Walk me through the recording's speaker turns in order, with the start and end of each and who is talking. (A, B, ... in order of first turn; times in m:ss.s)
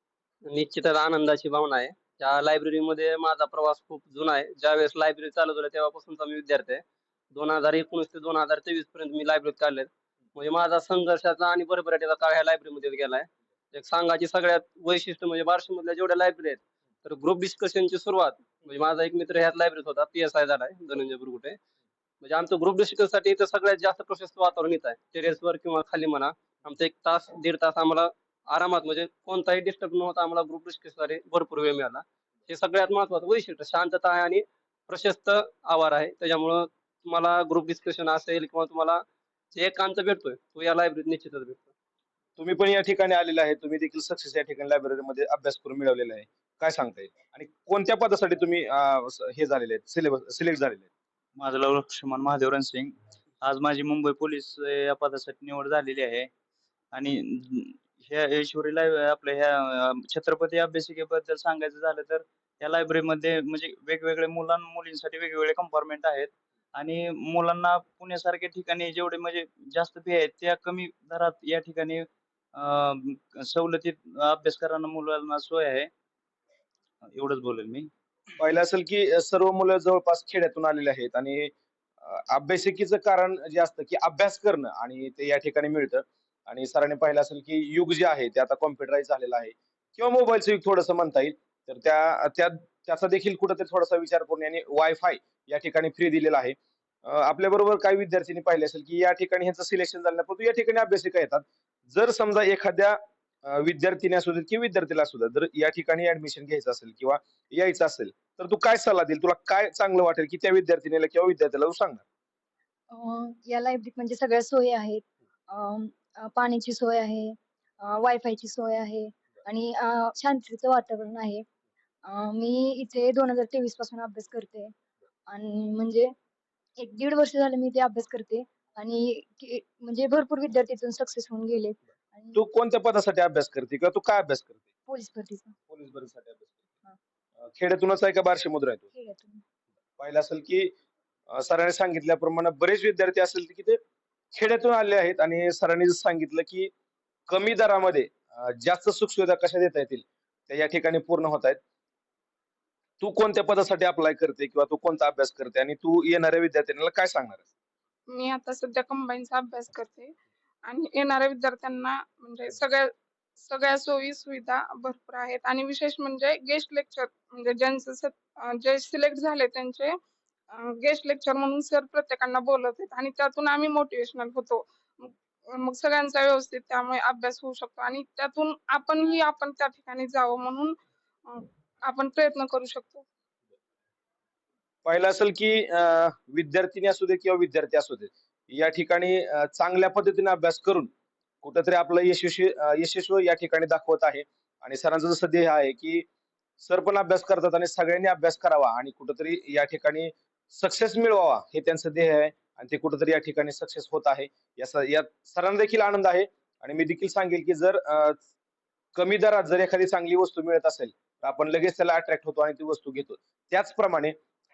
0:00.4-0:21.6 A
0:22.2-0:39.0 A
0:39.5-0:41.7 A
0:42.4-0:50.9 B
0:51.4-0:56.3 C
0:56.9-1:15.9 C
1:17.0-1:17.9 C
1:18.4-1:21.5 B
1:22.0-1:52.0 B
1:52.9-2:01.4 D
2:02.0-2:04.7 D
2:05.3-2:06.1 D
2:06.8-2:12.4 D
2:12.3-2:14.6 B
2:14.9-2:15.5 D
2:15.7-2:16.6 B
2:17.4-2:18.8 B
2:18.9-2:19.4 D
2:20.0-2:20.7 B
2:21.3-2:23.8 B
2:24.3-2:26.7 B
2:27.3-2:31.6 B
2:33.0-2:37.4 B
2:38.1-2:40.1 E
2:40.6-2:42.9 E
2:43.4-2:49.9 E
2:50.5-3:00.7 E
3:01.2-3:03.0 E
3:04.8-3:10.9 B
3:11.4-3:16.0 B
3:16.6-3:28.2 B
3:28.9-3:34.2 B